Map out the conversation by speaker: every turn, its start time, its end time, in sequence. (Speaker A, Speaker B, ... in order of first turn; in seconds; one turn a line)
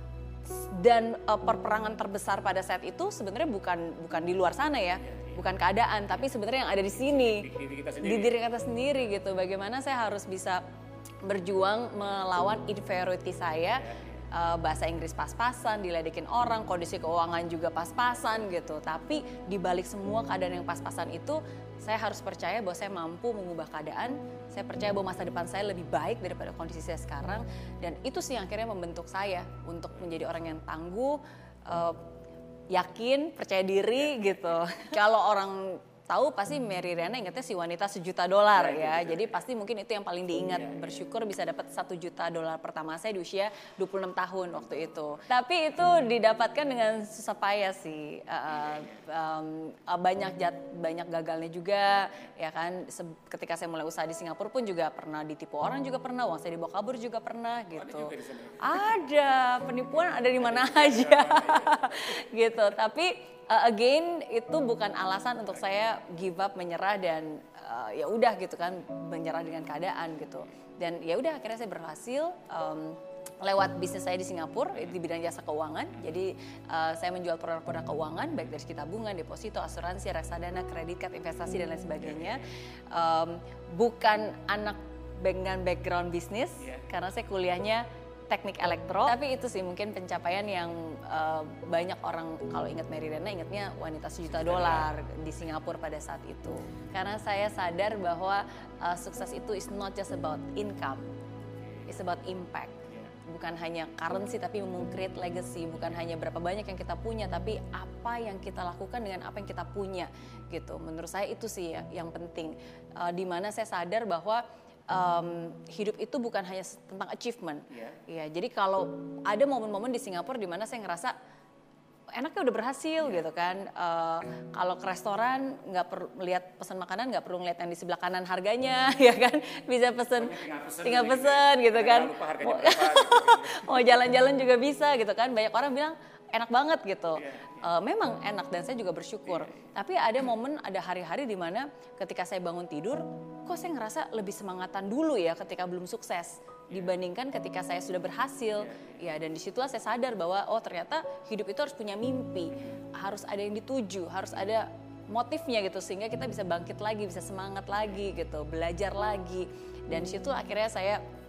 Speaker A: 0.5-7.5
Speaker B: 5.1-5.3
Speaker B: 6.8-8.4
Speaker A: 8.0-10.6
Speaker A: 11.2-32.0
Speaker B: 13.8-14.2
Speaker A: 32.7-101.0
Speaker B: 34.0-34.5
Speaker B: 38.5-39.4
Speaker B: 48.5-49.0
Speaker B: 57.7-58.9
Speaker B: 60.4-62.2
Speaker B: 82.0-82.4
Speaker B: 94.3-94.9
Speaker B: 101.6-102.0
Speaker A: 101.9-121.1
Speaker B: 102.9-103.1
Speaker B: 117.7-118.0
Speaker A: 122.2-161.0
Speaker B: 130.2-133.9
Speaker B: 137.2-137.6
Speaker B: 139.3-139.6
Speaker B: 148.6-149.0